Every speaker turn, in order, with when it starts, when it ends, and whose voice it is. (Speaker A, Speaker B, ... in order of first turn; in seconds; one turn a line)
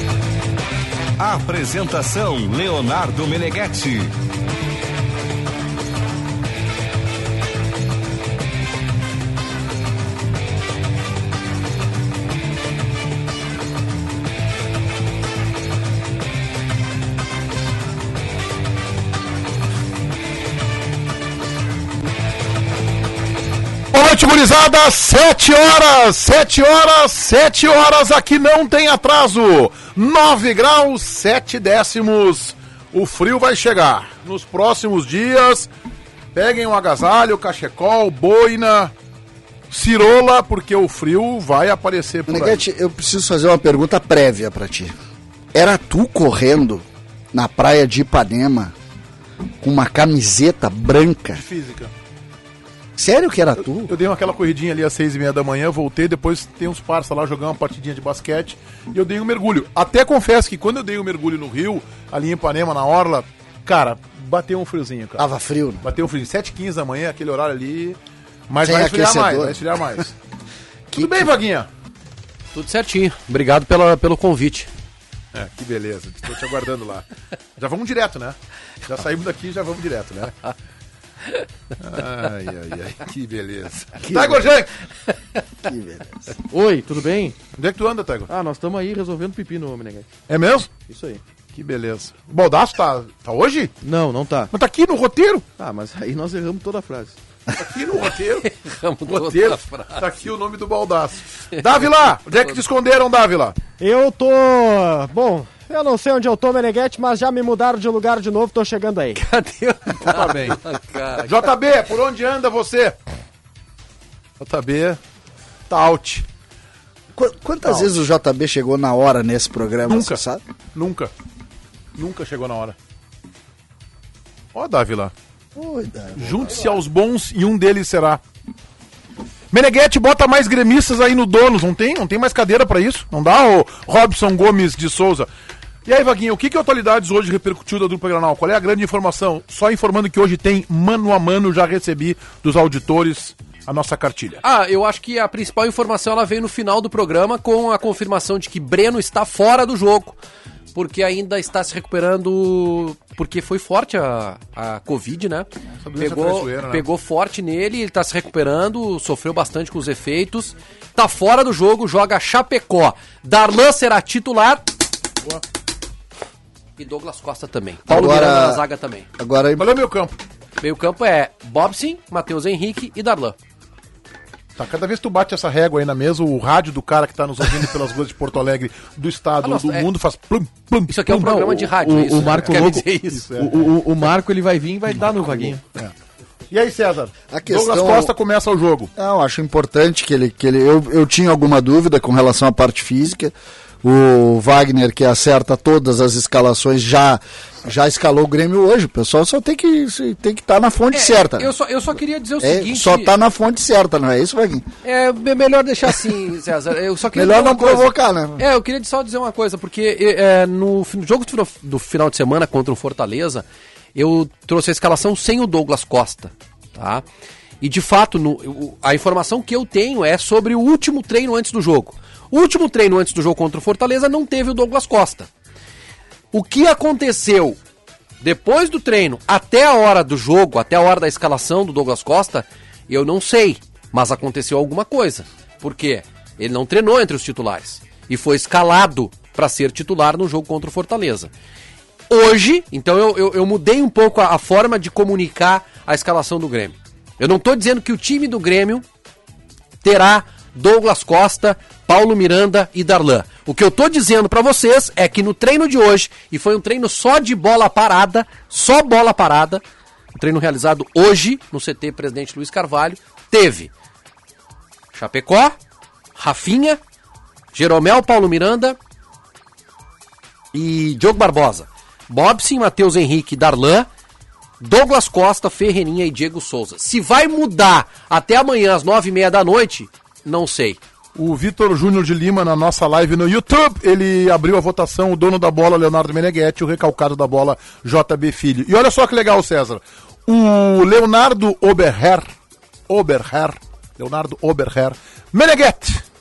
Speaker A: 1.2-4.2
Speaker B: 23.9-35.7
Speaker B: 36.3-38.9
Speaker B: 39.7-42.6
Speaker C: 42.3-45.0
Speaker C: 45.5-48.7
Speaker C: 49.6-51.4
Speaker B: 51.3-51.9
Speaker C: 53.0-53.9
Speaker B: 53.9-65.2
Speaker C: 65.2-65.8
Speaker B: 65.8-68.0
Speaker B: 68.5-70.1
Speaker C: 68.6-69.6
Speaker B: 70.9-71.7
Speaker D: 72.5-74.7
Speaker B: 75.3-80.3
Speaker B: 81.8-84.7
Speaker C: 84.1-84.4
Speaker C: 85.7-86.4
Speaker E: 86.5-87.4
Speaker B: 87.5-88.3
Speaker E: 88.3-90.1
Speaker B: 90.3-90.8
Speaker E: 90.9-91.2
Speaker B: 91.5-93.8
Speaker E: 93.8-94.5
Speaker B: 94.5-95.5
Speaker E: 95.6-97.2
Speaker B: 97.6-98.5
Speaker D: 98.4-100.0
Speaker B: 99.1-103.6
Speaker D: 101.5-101.9
Speaker F: 103.8-109.2
Speaker D: 109.2-111.5
Speaker B: 110.0-110.6
Speaker B: 111.2-113.0
Speaker B: 114.4-115.0
Speaker B: 115.7-116.3
Speaker C: 117.2-120.4
Speaker B: 117.7-117.9
Speaker B: 119.9-120.2
Speaker B: 120.8-121.1
Speaker B: 122.0-122.8
Speaker B: 124.5-125.1
Speaker C: 125.5-126.8
Speaker B: 126.2-128.2
Speaker B: 129.5-135.3
Speaker B: 135.9-144.4
Speaker D: 144.4-150.2
Speaker D: 150.8-164.7
Speaker B: 155.8-156.9
Speaker D: 166.8-169.1
Speaker C: 167.9-168.6
Speaker C: 169.2-169.7
Speaker B: 169.6-170.2
Speaker D: 170.6-173.4
Speaker B: 174.6-183.7
Speaker D: 179.4-179.9
Speaker D: 180.9-183.3
Speaker E: 181.8-185.6
Speaker B: 185.2-185.9
Speaker B: 186.5-188.9
Speaker C: 187.3-188.1
Speaker C: 189.0-201.5
Speaker D: 200.9-203.1
Speaker C: 202.4-204.7
Speaker D: 204.8-217.0
Speaker C: 207.1-208.5
Speaker D: 217.6-225.3
Speaker D: 226.3-227.6
Speaker D: 228.2-241.3
Speaker D: 242.1-248.8
Speaker D: 249.8-259.6
Speaker D: 260.1-263.7
Speaker D: 264.9-265.6
Speaker D: 266.2-266.8
Speaker D: 267.5-268.8
Speaker D: 270.5-273.9
Speaker D: 274.6-280.8
Speaker B: 281.2-292.3
Speaker B: 292.9-296.0